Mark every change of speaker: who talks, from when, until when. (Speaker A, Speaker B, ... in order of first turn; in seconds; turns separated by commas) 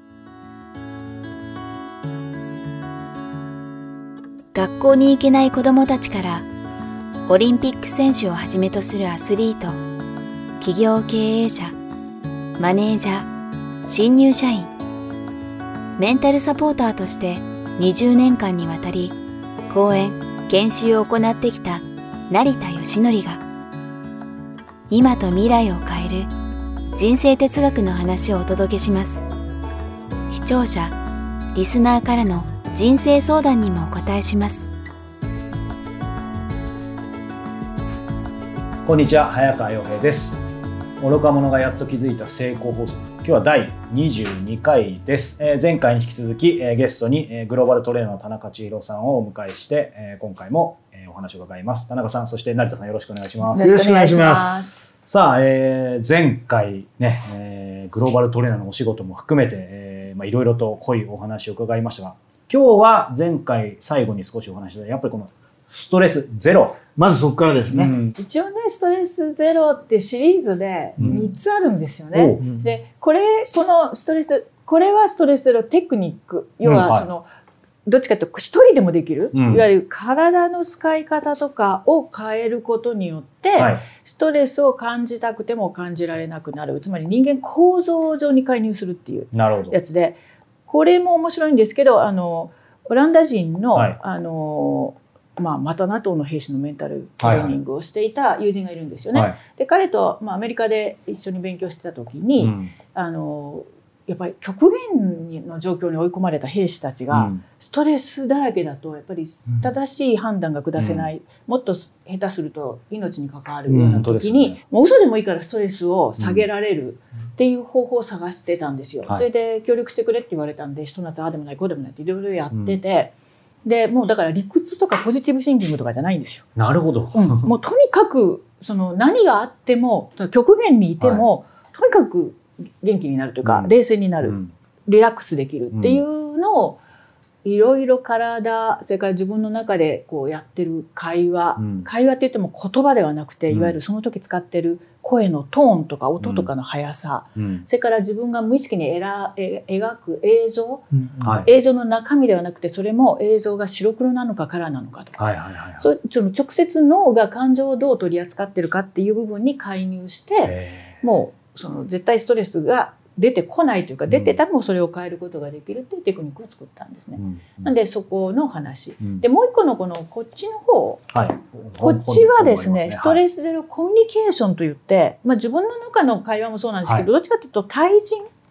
Speaker A: 4.5-6.5, Speaker A: 7.3-9.8, Speaker A: 10.6-11.8, Speaker A: 12.6-13.3, Speaker A: 13.8-14.7, Speaker A: 16.0-23.4, Speaker A: 24.9-26.3, Speaker A: 26.9-29.2, Speaker A: 30.3-31.0, Speaker A: 31.5-34.7, Speaker B: 38.8-40.4, Speaker B: 41.0-53.7, Speaker C: 53.4-54.7, Speaker D: 53.6-54.8, Speaker B: 55.1-66.8, Speaker D: 67.0-67.9, Speaker B: 67.7-68.2, Speaker C: 68.2-77.3, Speaker B: 72.1-72.4, Speaker D: 72.4-72.7, Speaker B: 76.7-77.1, Speaker C: 77.8-123.1, Speaker B: 79.3-79.6, Speaker B: 83.6-83.8, Speaker B: 89.3-89.7, Speaker B: 97.2-97.5, Speaker B: 102.4-102.7, Speaker B: 107.1-107.4, Speaker B: 110.8-111.1, Speaker D: 113.7-114.0, Speaker B: 113.8-114.6, Speaker B: 116.2-116.4, Speaker B: 122.5-122.8, Speaker C: 123.6-126.5, Speaker B: 126.5-127.5, Speaker C: 127.1-134.3, Speaker B: 133.4-134.5, Speaker C: 134.9-136.8, Speaker B: 135.7-136.0, Speaker C: 137.4-150.8, Speaker B: 141.6-141.9, Speaker B: 143.5-143.8, Speaker B: 146.2-146.5, Speaker B: 147.3-147.7, Speaker D: 150.9-151.4, Speaker C: 151.4-155.2, Speaker B: 155.2-155.9, Speaker C: 155.8-171.1, Speaker B: 160.4-160.9, Speaker B: 164.1-164.4, Speaker B: 167.2-167.7, Speaker B: 169.0-169.2, Speaker B: 171.1-173.2, Speaker C: 171.8-178.3